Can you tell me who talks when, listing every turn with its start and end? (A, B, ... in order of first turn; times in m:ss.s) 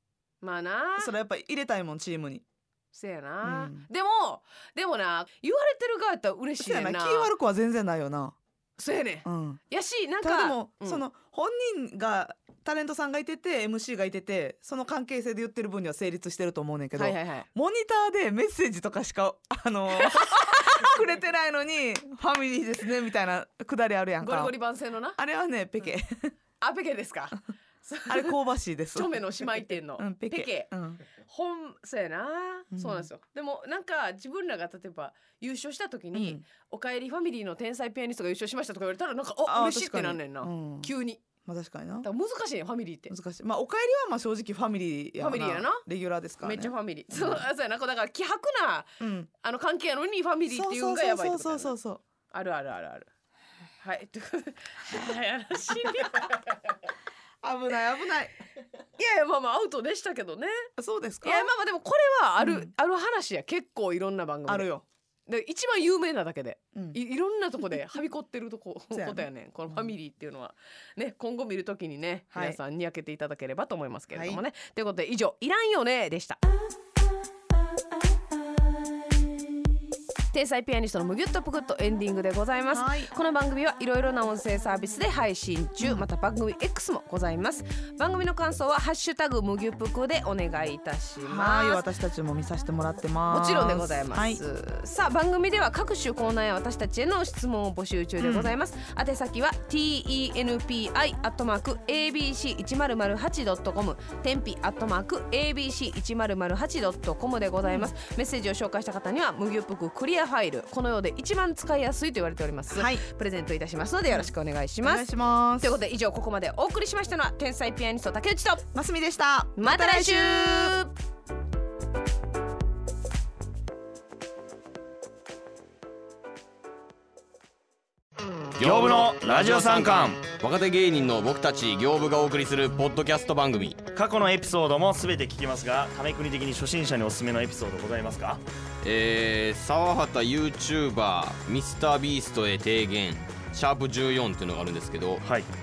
0:00.4-0:01.1 A
0:01.0-0:02.4 B
0:02.9-0:07.3 A
0:03.4-0:03.9 B
0:06.6-0:08.4 B
0:08.8-0:11.0 A
0:09.2-0:09.6 B
0:10.2-0:24.6 B
0:17.0-0:17.5 A
0:20.0-0:20.6 A
0:24.2-0:25.2 A
0:25.2-0:26.3 B
0:26.6-0:28.4 A
0:28.1-0:29.2 B
0:28.9-0:41.2 A
0:30.0-0:31.0 B
0:32.7-0:33.1 B
0:36.1-0:36.4 B
0:39.5-0:40.9 B
0:41.4-0:42.1 B
0:42.0-0:43.1 A
0:43.1-0:47.4 B
0:45.2-0:45.8 A
0:46.4-0:51.7 A
0:49.0-0:49.3 B
0:50.5-0:52.0 B
0:52.3-0:53.1 A
0:53.8-0:56.3 A
0:57.4-0:58.3 B
0:59.0-1:00.7 A
1:00.8-1:01.5 B
1:01.2-1:04.7 A
1:02.4-1:02.7 B
1:04.5-1:04.8 B
1:05.3-1:16.4 A
1:08.9-1:09.9 B
1:12.3-1:12.6 B
1:14.1-1:14.4 B
1:20.3-1:31.8 A
1:22.7-1:23.1 B
1:25.8-1:26.1 B
1:31.2-1:34.4 B
1:33.3-1:55.1 A
1:38.2-1:38.6 B
1:52.7-1:53.0 B
1:54.1-1:55.8 B
1:55.6-1:58.6 A
1:58.7-2:00.8 B
1:59.6-2:00.9 A
2:08.6-2:13.8 C
2:08.6-2:10.3 D
2:14.0-2:18.4 D
2:18.8-2:25.2 C
2:25.2-2:25.5 D